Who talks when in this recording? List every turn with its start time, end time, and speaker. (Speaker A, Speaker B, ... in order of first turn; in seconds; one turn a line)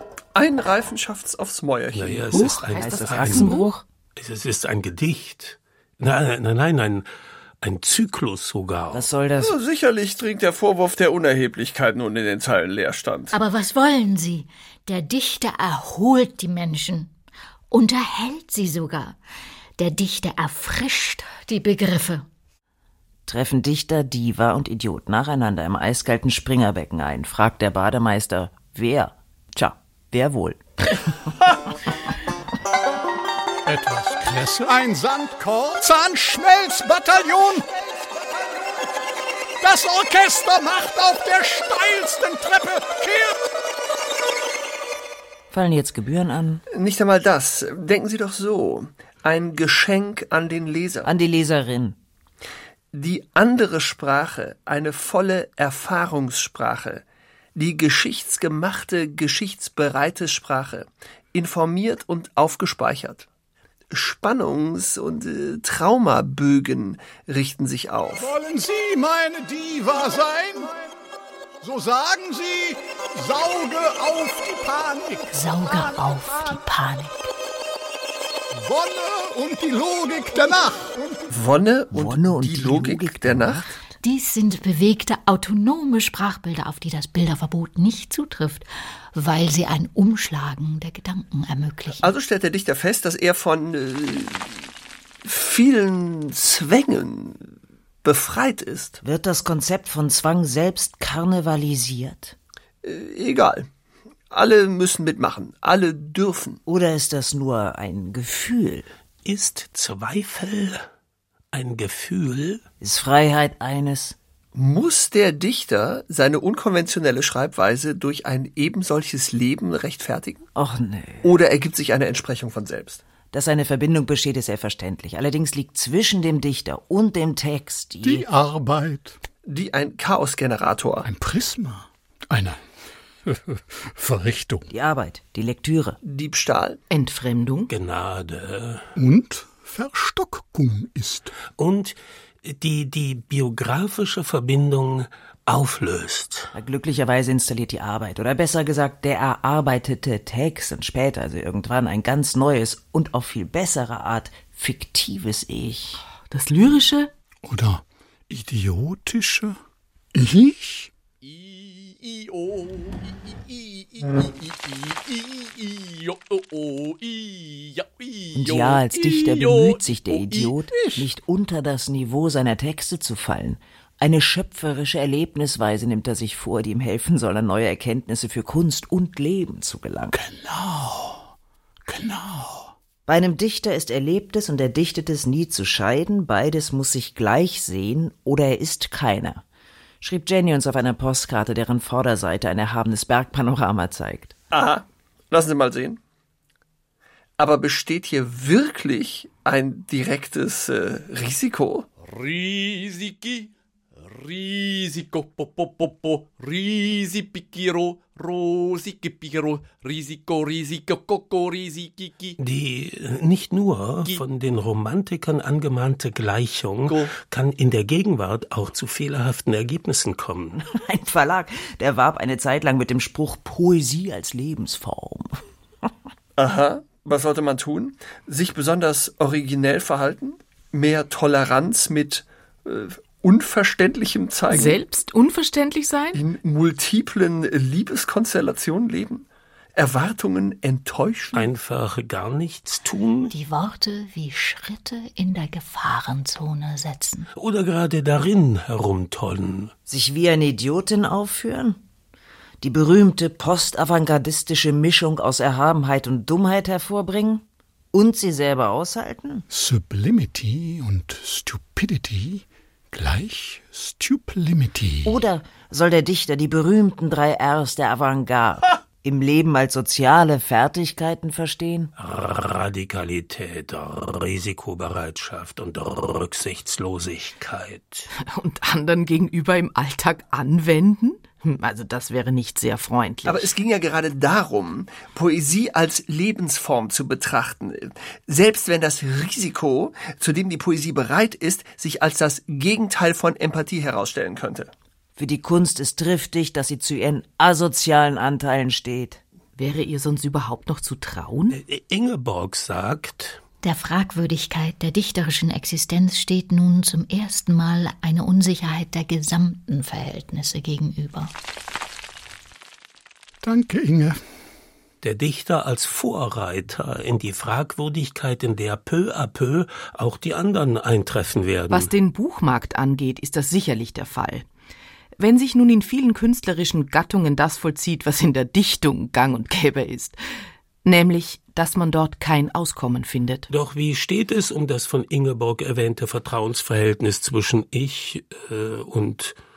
Speaker A: 0.3-2.5
Speaker B: 1.9-7.1
Speaker C: 2.3-3.8
Speaker D: 2.8-3.6
Speaker B: 7.6-9.1
Speaker D: 8.9-9.6
Speaker A: 9.4-13.3
Speaker E: 13.3-17.1
Speaker E: 17.7-19.2
Speaker E: 19.8-22.2
Speaker D: 23.3-31.2
Speaker F: 33.6-38.7
Speaker F: 39.6-43.5
Speaker D: 45.5-46.6
Speaker A: 46.7-51.1
Speaker D: 51.0-52.0
Speaker A: 52.9-57.0
Speaker A: 57.6-63.3
Speaker A: 63.9-68.3
Speaker F: 68.2-70.9
Speaker F: 71.6-76.6
Speaker E: 75.3-77.3
Speaker F: 78.5-81.3
Speaker A: 81.3-83.7
Speaker D: 81.9-84.0
Speaker E: 84.0-92.1
Speaker A: 92.0-94.5
Speaker A: 95.2-97.5
Speaker A: 98.0-99.0
Speaker D: 99.0-102.3
Speaker A: 102.8-103.7
Speaker A: 104.3-106.6
Speaker D: 106.7-108.9
Speaker B: 109.3-110.9
Speaker B: 111.5-112.6
Speaker D: 112.8-114.2
Speaker A: 114.5-120.4
Speaker D: 120.5-121.3
Speaker A: 121.2-123.0
Speaker D: 123.3-128.3
Speaker F: 128.0-129.2
Speaker A: 129.5-131.1
Speaker F: 131.1-132.6
Speaker F: 133.3-134.7
Speaker D: 134.7-136.0
Speaker A: 136.0-136.8
Speaker C: 136.9-137.7
Speaker B: 137.7-138.9
Speaker F: 139.0-141.3
Speaker B: 141.6-146.5
Speaker D: 146.6-156.0
Speaker C: 156.3-157.1
Speaker F: 157.4-159.6
Speaker F: 160.2-160.9
Speaker G: 161.2-170.6
Speaker D: 168.3-180.2
Speaker F: 170.7-171.1
Speaker F: 180.1-181.3
Speaker F: 181.9-182.7
Speaker D: 183.1-189.4
Speaker D: 190.0-194.3
Speaker A: 194.5-196.0
Speaker A: 197.4-201.9
Speaker G: 202.0-212.4
Speaker B: 212.4-220.6
Speaker G: 216.9-217.1
Speaker D: 220.6-225.4
Speaker A: 226.4-234.8
Speaker C: 234.5-236.2
Speaker A: 236.1-241.5
Speaker B: 241.3-243.3
Speaker E: 243.3-247.3
Speaker B: 247.4-249.7
Speaker D: 249.9-251.8
Speaker D: 252.6-259.5
Speaker F: 259.5-265.2
Speaker D: 265.1-271.9
Speaker B: 272.0-278.1
Speaker C: 278.1-283.5
Speaker A: 283.2-294.7
Speaker D: 295.2-299.2
Speaker C: 299.6-301.6
Speaker B: 301.5-303.4
Speaker E: 303.6-311.3
Speaker F: 313.4-314.2
Speaker B: 315.0-321.9
Speaker C: 321.7-324.5
Speaker C: 325.2-330.2
Speaker C: 330.9-333.5
Speaker B: 333.5-339.4